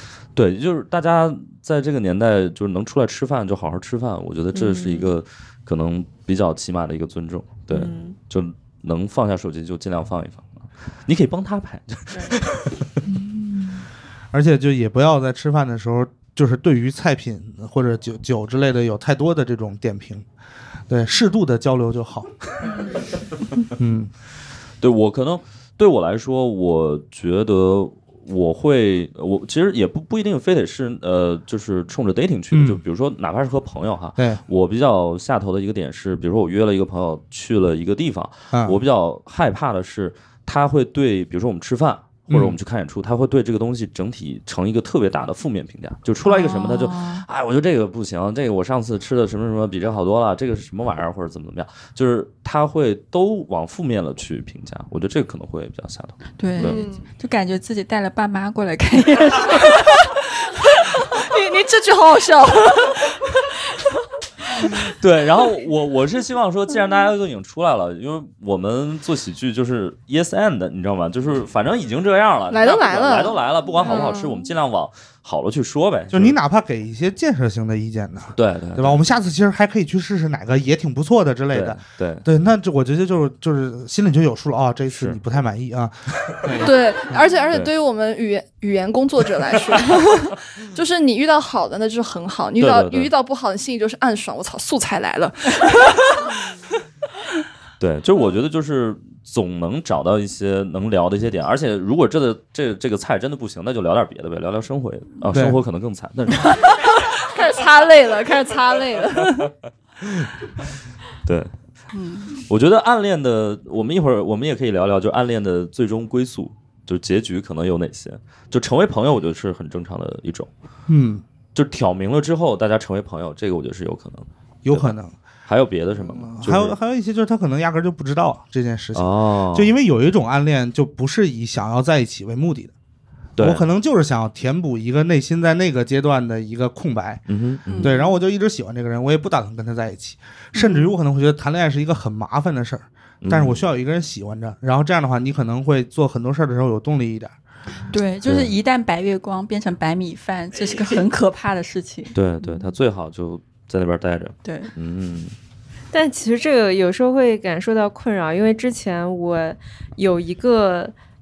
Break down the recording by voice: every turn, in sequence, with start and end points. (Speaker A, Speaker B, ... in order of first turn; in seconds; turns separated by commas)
Speaker A: 0.3-13.0, Speaker B: 4.5-5.1, Speaker B: 7.7-8.2, Speaker C: 14.3-20.2, Speaker C: 20.9-22.3, Speaker C: 23.8-24.1, Speaker A: 24.8-56.8, Speaker C: 32.5-32.8, Speaker C: 34.2-34.4, Speaker C: 38.5-38.8, Speaker C: 42.3-42.6, Speaker D: 46.2-47.2, Speaker D: 56.4-60.0, Speaker E: 56.6-57.1, Speaker E: 61.1-63.3, Speaker A: 64.9-76.4, Speaker E: 72.5-74.5, Speaker C: 76.1-86.7, Speaker A: 78.3-79.0, Speaker A: 81.5-82.3, Speaker A: 84.9-85.2, Speaker E: 86.6-96.3, Speaker A: 92.6-93.1, Speaker A: 97.8-106.7, Speaker C: 105.3-105.6, Speaker E: 107.0-109.5, Speaker A: 110.0-110.3, Speaker A: 111.3-111.5, Speaker D: 111.9-112.4, Speaker A: 112.5-120.5, Speaker C: 120.9-121.2, Speaker A: 121.5-126.8, Speaker C: 124.7-125.2, Speaker C: 126.0-132.7, Speaker A: 128.9-129.7, Speaker A: 133.4-133.6, Speaker C: 133.4-137.2, Speaker A: 137.3-137.9, Speaker D: 137.7-138.0, Speaker C: 137.8-147.3, Speaker D: 140.6-140.9, Speaker A: 143.2-143.7, Speaker D: 147.9-152.7, Speaker A: 148.3-148.5, Speaker A: 152.1-155.3, Speaker D: 154.4-154.7, Speaker B: 155.9-160.9